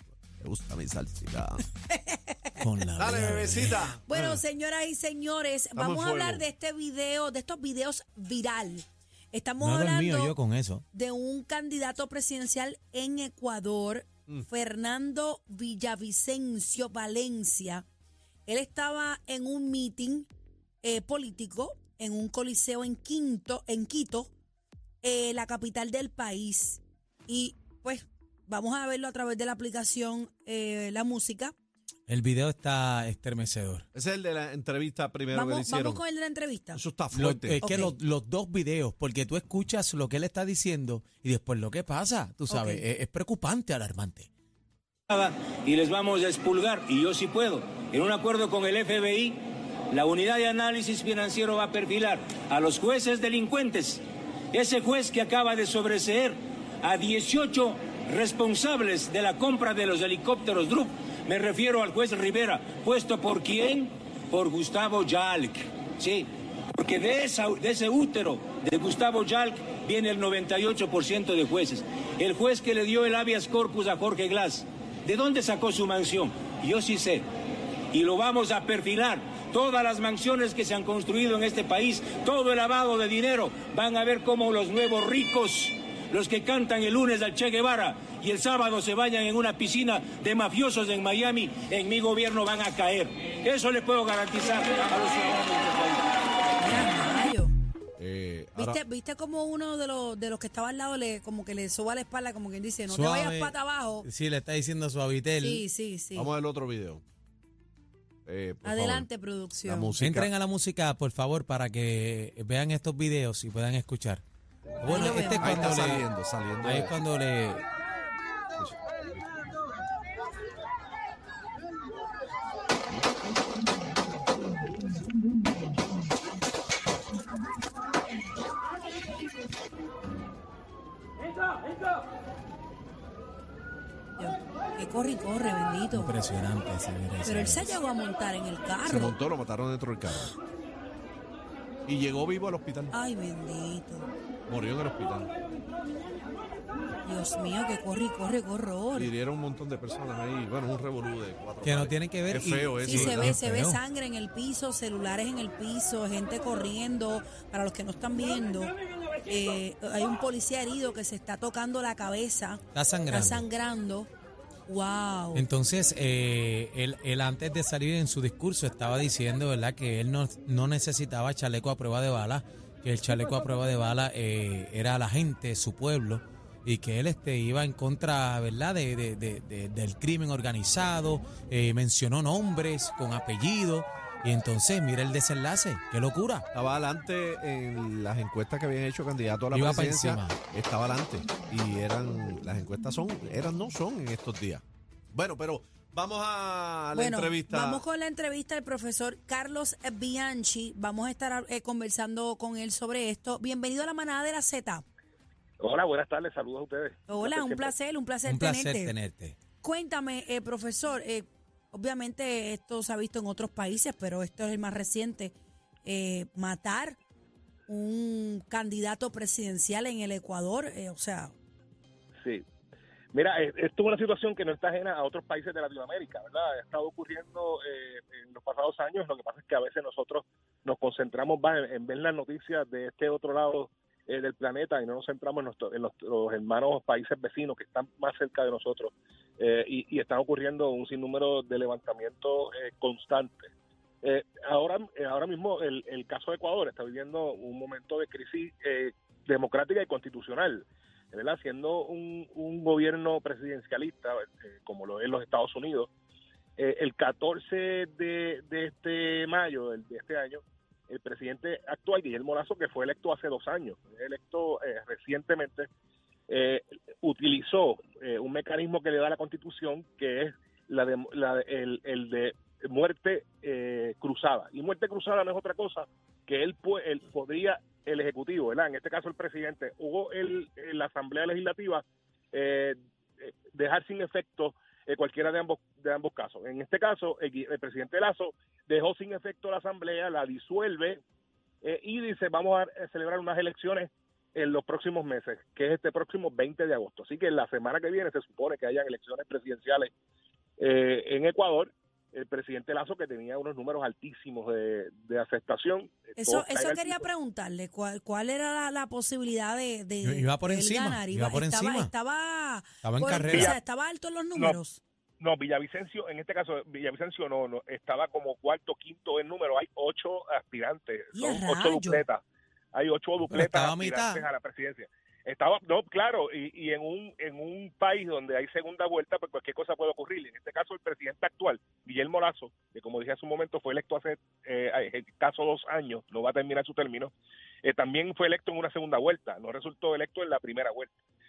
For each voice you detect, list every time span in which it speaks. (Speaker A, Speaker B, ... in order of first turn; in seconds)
Speaker A: 0.4-1.6, 3.0-4.4, 5.8-6.5, 34.0-36.0, 36.7-37.6, 98.0-98.8, 106.2-107.0, 108.3-109.1, 109.7-110.3, 115.4-117.0, 138.8-140.3, 141.9-142.9, 144.5-145.3, 149.0-153.4, 186.5-197.8
Speaker B: 1.9-2.6, 4.0-10.3, 10.9-17.8, 18.5-20.3, 20.8-24.3, 25.0-31.5, 35.3-36.8, 37.6-38.0, 42.5-42.8, 96.6-97.5, 98.5-104.1, 105.4-106.3, 108.6-109.9, 114.8-115.6, 134.2-136.2, 137.2-139.2, 142.9-144.1, 147.0-149.1, 152.8-164.1, 164.7-165.5, 196.9-204.8, 207.1-209.0, 209.6-217.0, 217.7-221.3, 306.2-314.8, 321.1-322.0
Speaker C: 2.6-3.9, 9.6-10.8, 32.1-33.9, 37.1-44.3, 102.9-105.6, 110.0-114.2, 114.8-116.1, 116.6-117.7, 135.9-137.8, 151.6-153.8, 162.7-163.5, 165.3-186.5, 189.5-190.4, 208.3-209.4, 310.0-311.9, 312.8-313.6, 323.3-324.3
Speaker D: 45.1-49.4, 49.9-77.3, 77.9-96.1
Speaker E: 205.6-207.7, 223.1-243.5, 244.0-255.9, 256.6-265.7, 266.3-291.0, 291.6-299.9, 300.6-307.0, 313.2-313.5, 315.2-322.2, 322.7-337.1, 337.6-340.9